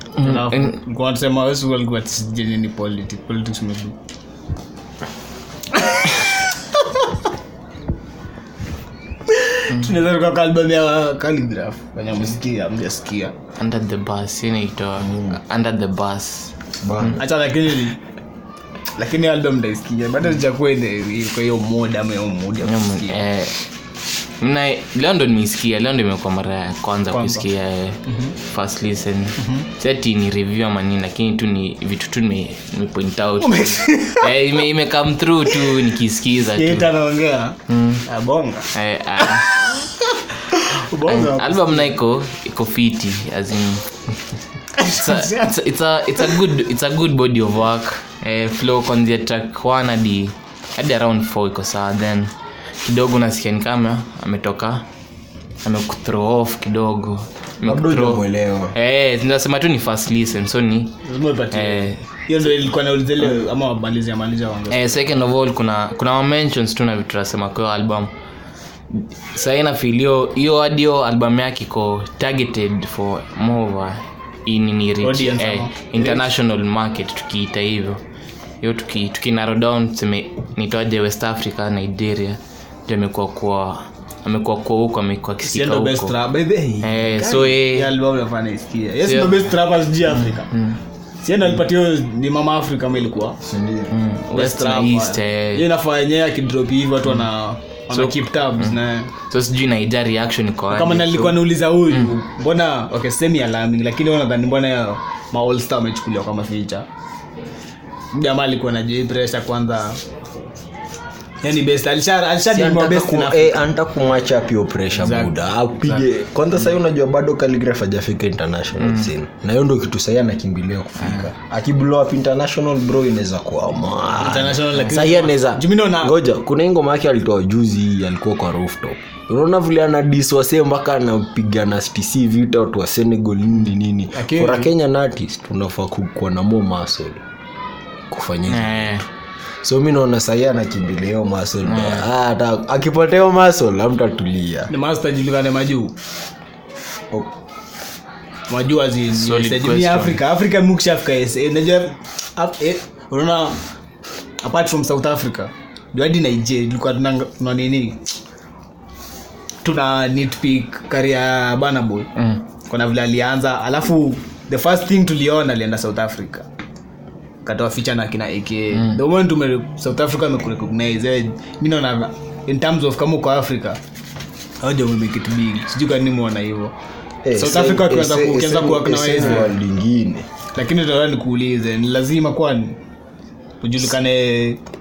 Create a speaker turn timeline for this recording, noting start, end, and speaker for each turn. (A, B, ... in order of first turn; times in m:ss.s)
0:00.2-0:00.7 A
0:00.2-0:04.0 B
0:05.8-0:06.0 B
0:09.3-0:13.3 B
0:13.6-0:17.2 A
0:15.0-0:15.3 C
0:16.8-0:17.2 C
0:17.2-0:18.0 B
0:19.0-0:23.2 B
0:22.6-0:23.5 A
0:24.4-0:36.9 A
0:27.1-0:27.4 B
0:28.1-0:28.3 B
0:29.4-0:29.7 B
0:33.4-0:34.4 B
0:36.5-0:41.9 B
0:37.7-0:38.0 A
0:38.7-0:39.6 A
0:41.0-0:43.9 A
0:44.8-0:45.5 B
0:44.8-0:52.3 A
0:52.8-0:54.8 A
0:55.6-1:01.0 A
0:57.6-0:58.7 C
1:01.0-1:04.9 B
1:01.5-1:02.0 A
1:04.7-1:08.1 A
1:08.9-1:18.0 A
1:15.0-1:16.3 B
1:18.6-1:26.2 A
1:25.4-1:30.6 B
1:26.8-1:27.9 A
1:29.0-1:29.5 A
1:30.2-1:30.8 A
1:31.2-1:33.4 B
1:33.4-1:33.9 C
1:33.9-1:35.6 A
1:34.3-1:39.1 B
1:37.9-1:42.1 A
1:40.7-1:46.8 B
1:48.1-1:50.0 B
1:51.4-1:53.7 B
1:52.5-2:17.2 C
1:54.9-1:56.1 B
2:04.2-2:06.1 B
2:14.1-2:14.7 B
2:18.1-2:19.0 C
2:18.5-2:19.0 A
2:19.6-2:24.7 C
2:21.6-2:22.0 A
2:24.7-2:25.9 B
2:28.5-2:33.6 B
2:29.1-2:30.2 A
2:34.4-2:38.0 B
2:39.6-2:42.1 B
2:42.6-2:46.4 B
2:47.4-2:53.8 B
2:54.6-2:56.7 B
2:57.2-3:00.2 C
2:57.3-2:59.5 B
3:00.5-3:02.8 B
3:03.6-3:04.6 B